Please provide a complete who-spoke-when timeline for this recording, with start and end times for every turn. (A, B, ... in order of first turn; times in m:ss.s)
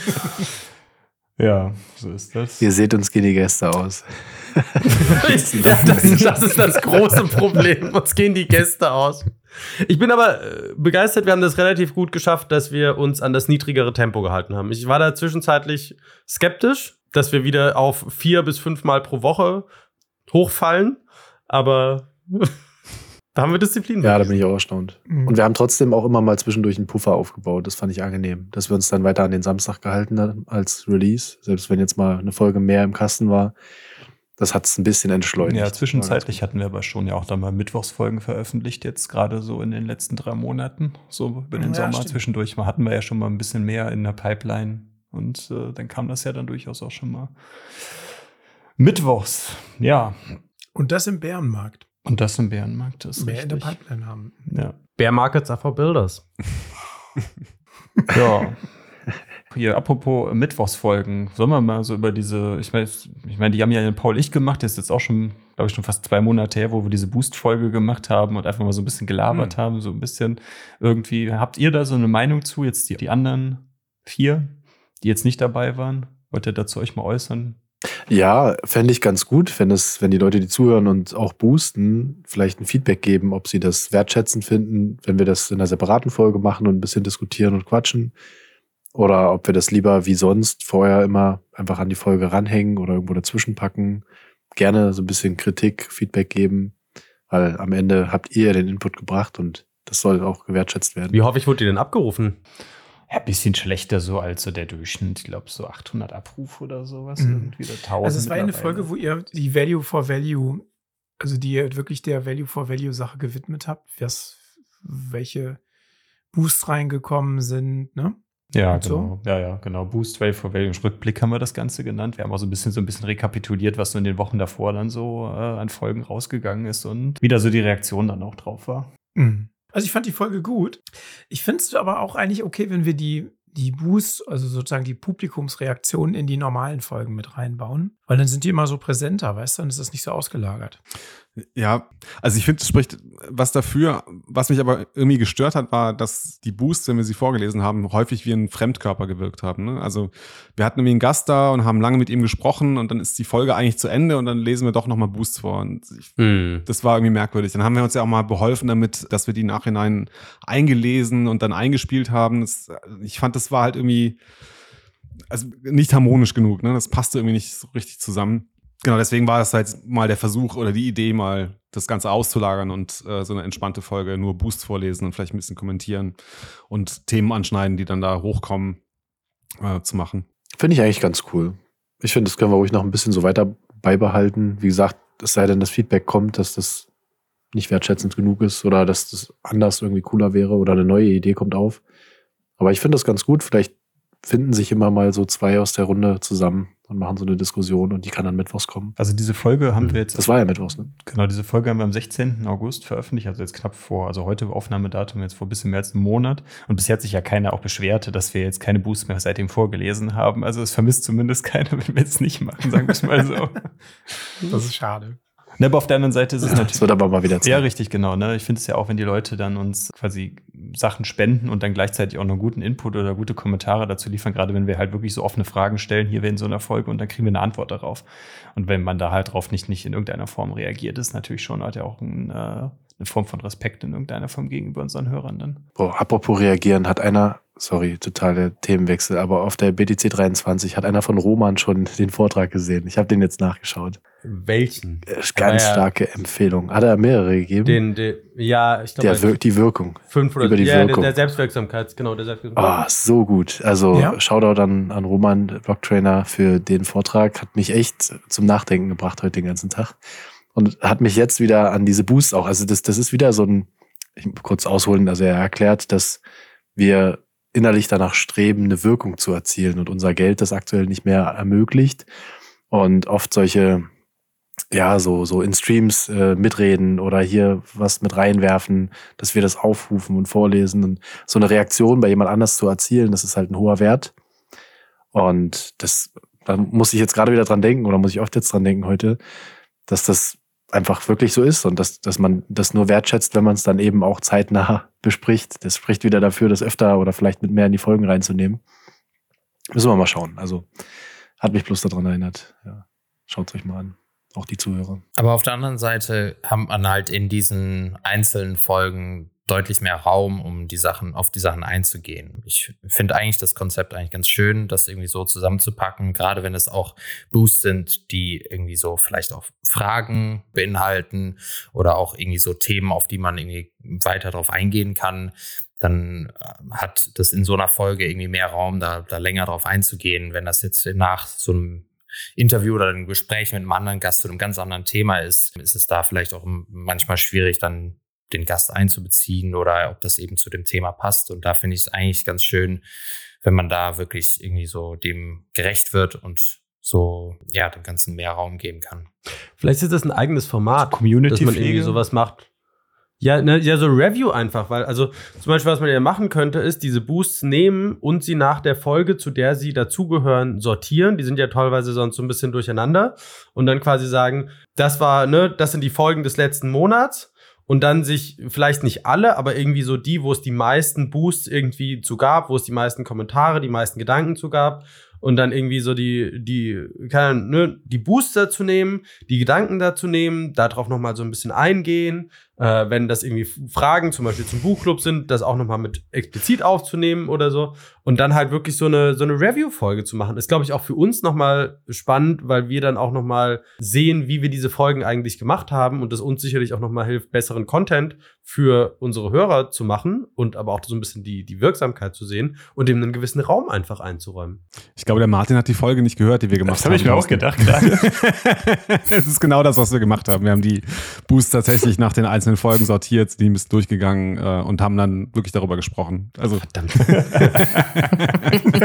0:01.4-0:02.7 A
0:02.6-0:06.4 B
0:05.1-0:19.7 C
0:20.3-0:22.5 C
0:23.3-0:24.4 C
0:24.0-0:33.6 B
0:25.1-0:25.4 D
0:34.4-0:36.4 B
0:35.4-0:47.8 A
0:41.6-0:42.2 D
0:48.8-0:50.4 A
0:50.8-0:51.8 D
0:52.0-0:53.8 A
0:53.2-0:54.4 D
0:54.5-0:54.8 A
0:55.0-0:56.2 C
0:58.1-0:58.7 A
0:59.5-1:17.6 A
1:18.1-1:28.1 B
1:29.0-1:34.0 B
1:34.6-1:36.8 B
1:37.3-1:41.2 B
1:41.1-1:42.4 C
1:43.1-1:48.9 A
1:47.2-1:50.7 D
1:51.2-1:55.6 D
1:56.3-1:58.2 D
1:58.5-2:08.9 A
1:58.7-1:59.1 D
2:09.2-2:20.8 D
2:21.4-2:44.2 E
2:36.2-2:36.6 C
2:45.3-2:58.8 E
2:59.6-3:00.2 E
3:00.6-3:06.9 B
3:07.5-3:11.8 B
3:12.6-3:13.7 B
3:14.2-3:19.0 B
3:19.0-3:33.7 A
3:20.2-3:20.9 B
3:34.5-3:35.2 D
3:35.6-3:55.6 A
3:36.4-3:37.6 B
3:55.8-4:04.0 B
4:04.2-4:05.9 C
4:05.1-4:07.8 B
4:07.6-4:09.3 C
4:09.0-4:11.1 B
4:10.1-4:12.8 C
4:12.6-4:20.0 B
4:13.9-4:14.2 D
4:20.6-4:26.2 B
4:26.8-4:32.1 B
4:32.7-4:33.9 B
4:34.7-4:44.1 B
4:45.1-4:49.2 B
4:49.9-4:58.6 B
4:59.7-5:00.7 B
5:01.4-5:05.0 B
5:05.2-5:42.8 F
5:43.4-5:49.1 F
5:49.6-5:52.5 C
5:50.8-5:52.0 A
5:53.2-6:44.6 C
6:45.0-6:58.7 E
6:46.6-6:48.1 A
6:56.7-6:57.7 C
6:57.1-6:58.1 A